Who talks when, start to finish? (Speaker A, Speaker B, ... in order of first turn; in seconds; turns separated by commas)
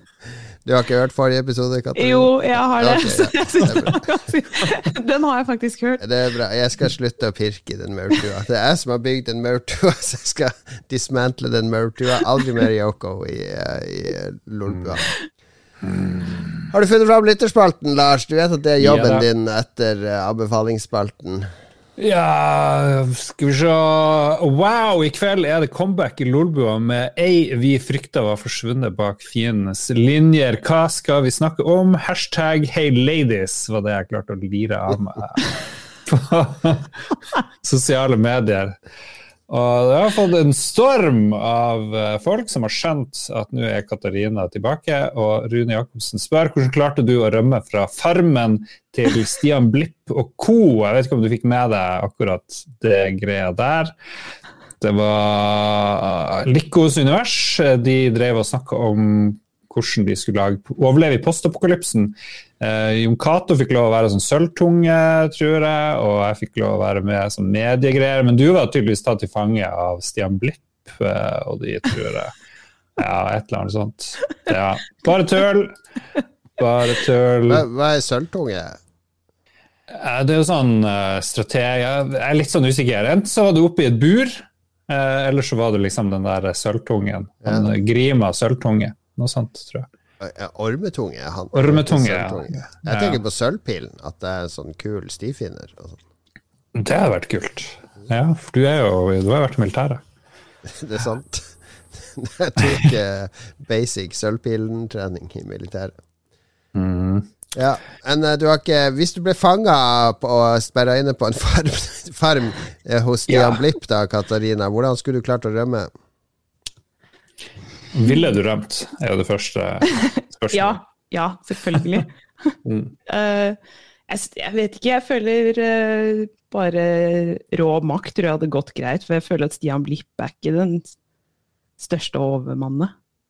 Speaker A: 0.6-4.0, Speaker B: 1.9-6.0, Speaker A: 6.0-15.1, Speaker C: 14.7-15.0, Speaker C: 15.8-16.7, Speaker A: 16.7-21.5, Speaker C: 18.8-19.2, Speaker C: 22.0-38.8, Speaker C: 39.5-53.9, Speaker C: 54.8-72.3, Speaker C: 73.0-75.8, Speaker C: 76.6-77.6, Speaker A: 77.5-78.8, Speaker C: 79.9-89.9, Speaker A: 87.4-87.7, Speaker A: 90.2-96.0, Speaker C: 91.5-93.2, Speaker C: 96.7-100.0, Speaker A: 100.7-105.9, Speaker C: 102.6-102.8, Speaker C: 106.7-107.3, Speaker A: 107.5-115.9, Speaker C: 113.3-113.6, Speaker C: 117.9-120.8, Speaker B: 120.5-122.5, Speaker C: 121.7-122.0, Speaker C: 122.6-122.9, Speaker B: 123.1-123.6, Speaker B: 124.1-130.9, Speaker B: 131.8-132.9